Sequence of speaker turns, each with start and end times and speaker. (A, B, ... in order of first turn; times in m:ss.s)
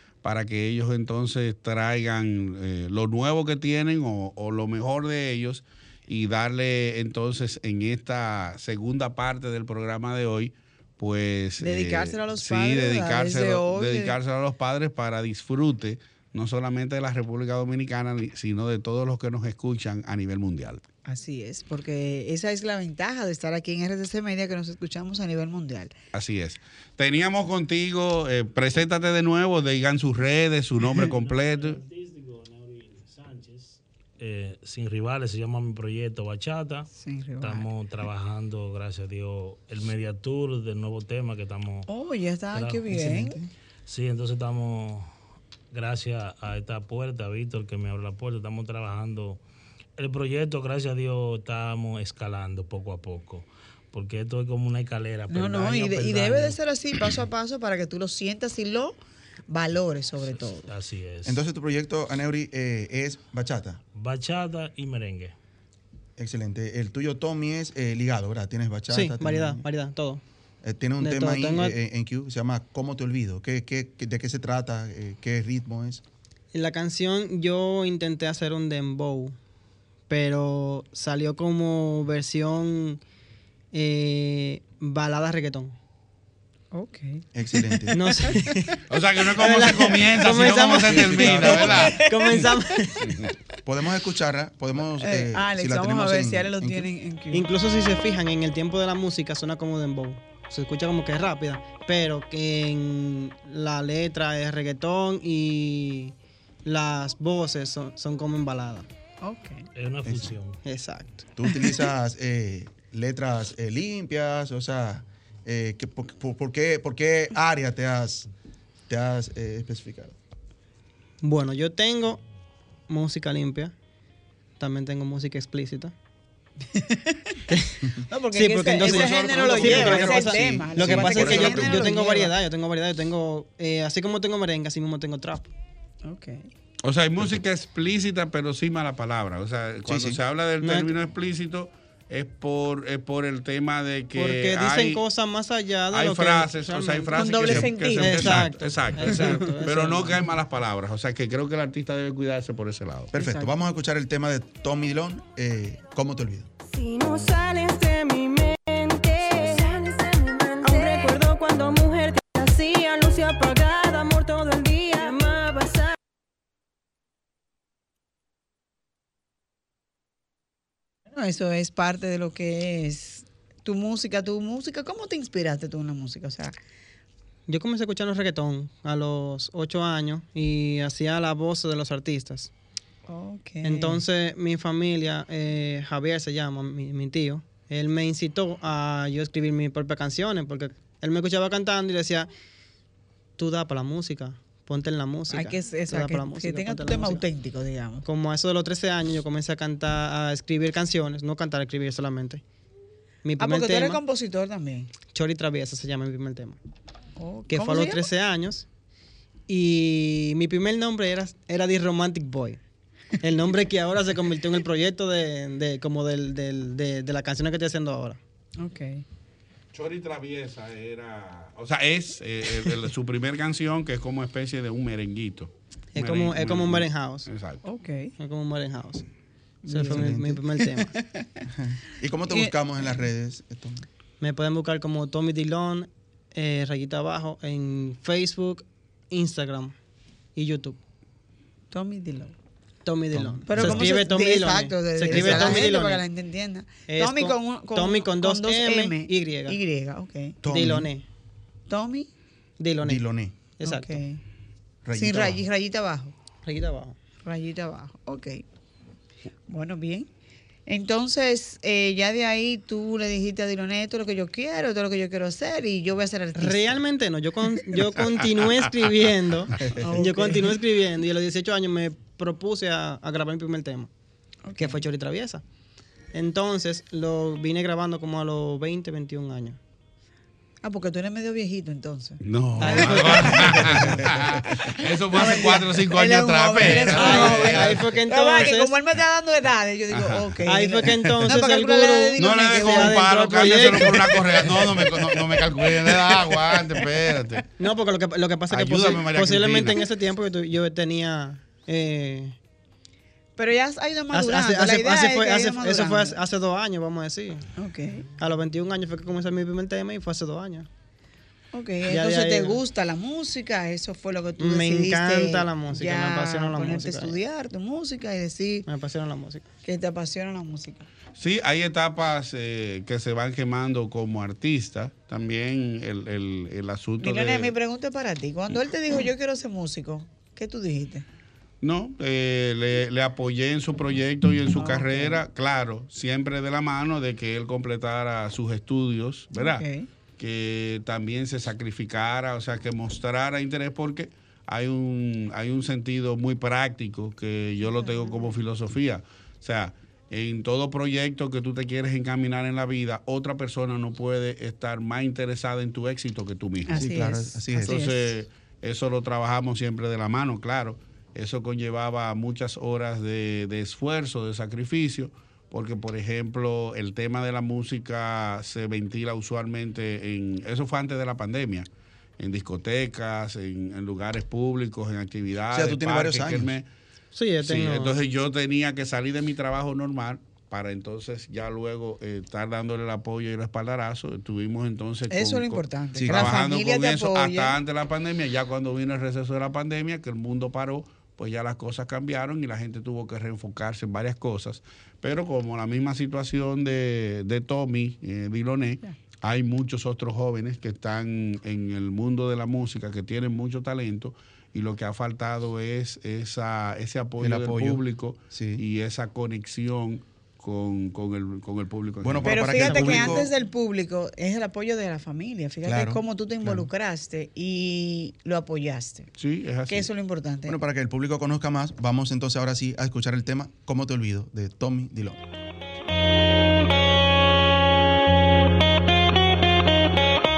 0:00.2-0:20.8 A
0:11.6-0:14.2 B
0:21.1-0:25.9 B
0:26.1-0:31.8 A
0:31.1-0:36.9 C
0:36.9-0:37.7 B
0:37.4-0:41.9 C
0:41.9-0:43.4 B
0:42.5-0:45.1 C
0:45.7-0:49.4 C
0:50.0-0:56.6 C
0:55.3-0:59.0 B
0:59.5-1:00.7 B
1:00.2-1:01.4 C
1:01.2-1:03.8 D
1:04.0-1:05.3 C
1:06.2-1:09.6 D
1:08.9-1:10.2 E
1:10.6-1:16.0 D
1:11.0-1:11.8 E
1:16.5-1:19.4 E
1:20.1-1:23.0 E
1:23.7-1:25.8 E
1:26.7-1:28.4 B
1:27.4-1:28.2 D
1:27.9-1:33.2 E
1:28.9-1:32.0 A
1:30.3-1:32.6 B
1:31.0-1:31.8 D
1:33.7-1:36.9 D
1:35.0-1:37.5 B
1:37.3-1:46.1 E
1:46.6-1:48.9 E
1:49.2-1:49.6 B
1:49.8-1:50.6 C
1:50.0-1:50.3 D
1:50.6-1:51.3 E
1:51.4-1:58.3 D
1:58.9-2:00.2 D
2:01.2-2:02.2 E
2:02.9-2:03.7 E
2:04.6-2:05.9 E
2:06.7-2:07.4 B
2:07.5-2:15.5 E
2:08.1-2:12.3 B
2:08.8-2:10.4 D
2:10.0-2:11.8 A
2:16.0-2:16.5 B
2:16.8-2:25.0 A
2:19.9-2:20.2 D
2:20.6-2:20.9 E
2:24.1-2:30.2 E
2:25.9-2:33.1 A
2:27.1-2:28.4 B
2:33.1-2:36.5 D
2:33.1-2:33.5 B
2:36.7-2:45.9 F
2:51.1-2:56.5 B
2:57.5-3:02.5 E
3:03.1-3:04.0 B
3:03.6-3:12.3 E
3:13.4-3:17.2 E
3:15.3-3:18.0 B
3:18.0-3:22.4 E
3:23.2-3:24.0 E
3:23.4-3:24.9 B
3:25.1-3:26.6 E
3:27.2-3:28.1 B
3:27.5-3:28.7 E
3:29.5-3:32.6 E
3:33.2-3:38.2 E
3:38.6-3:39.0 B
3:39.7-3:47.6 A
3:46.0-3:47.3 E
3:47.6-3:48.1 B
3:48.2-3:49.1 E
3:49.6-3:51.0 E
3:49.7-3:51.2 B
3:49.8-3:50.4 D
3:51.5-3:53.9 D
3:54.2-3:59.8 E
4:00.4-4:00.8 E
4:01.7-4:02.3 B
4:02.8-4:06.0 E
4:03.1-4:03.9 D
4:03.4-4:10.4 B
4:05.1-4:05.6 D
4:06.9-4:09.6 E
4:10.4-4:10.9 D
4:10.4-4:11.0 E
4:11.7-4:12.1 B
4:12.6-4:14.0 E
4:12.8-4:13.4 D
4:13.6-4:14.2 B
4:14.8-4:15.4 D
4:14.9-4:16.1 B
4:16.5-4:17.0 E
4:17.2-4:18.4 B
4:19.5-4:20.1 B
4:20.7-4:26.8 B
4:26.4-4:33.9 E
4:29.8-4:30.6 B
4:34.5-4:34.8 B
4:34.6-4:35.4 E
4:36.1-4:39.6 E
4:40.6-4:44.0 B
4:42.2-4:48.5 A
4:42.6-4:43.5 E
4:43.5-4:44.2 D
4:45.1-4:54.0 B
4:46.7-4:48.8 E
4:49.9-4:50.2 A
4:50.5-4:55.1 E
4:52.2-4:57.4 A
4:56.5-4:56.9 B
4:57.6-5:02.4 E
4:58.5-4:59.8 A
5:03.4-5:06.2 B
5:04.1-5:07.4 E
5:07.6-5:08.1 B
5:08.2-5:10.7 E
5:11.5-5:18.7 B
5:11.9-5:12.6 E
5:14.4-5:17.2 E
5:18.7-5:19.4 E
5:19.6-5:20.9 B
5:21.2-5:27.5 A
5:27.0-5:31.0 B
5:31.6-5:39.6 A
5:34.6-5:35.2 B
5:39.3-5:39.9 B
5:40.2-5:56.8 A
5:56.7-5:58.1 B
5:56.7-5:57.8 D
5:57.6-6:11.7 A
6:12.2-6:16.7 A
6:15.5-6:16.5 D
6:17.1-6:18.0 E
6:17.4-6:52.3 A
6:25.1-6:27.6 B
6:26.0-6:26.4 D
6:47.2-6:48.6 D
6:52.0-6:53.3 D
6:52.2-6:59.1 B
6:52.5-6:53.3 E
6:55.6-6:56.7 D
6:59.2-6:59.9 A
6:59.7-7:00.6 B
7:00.5-7:05.2 D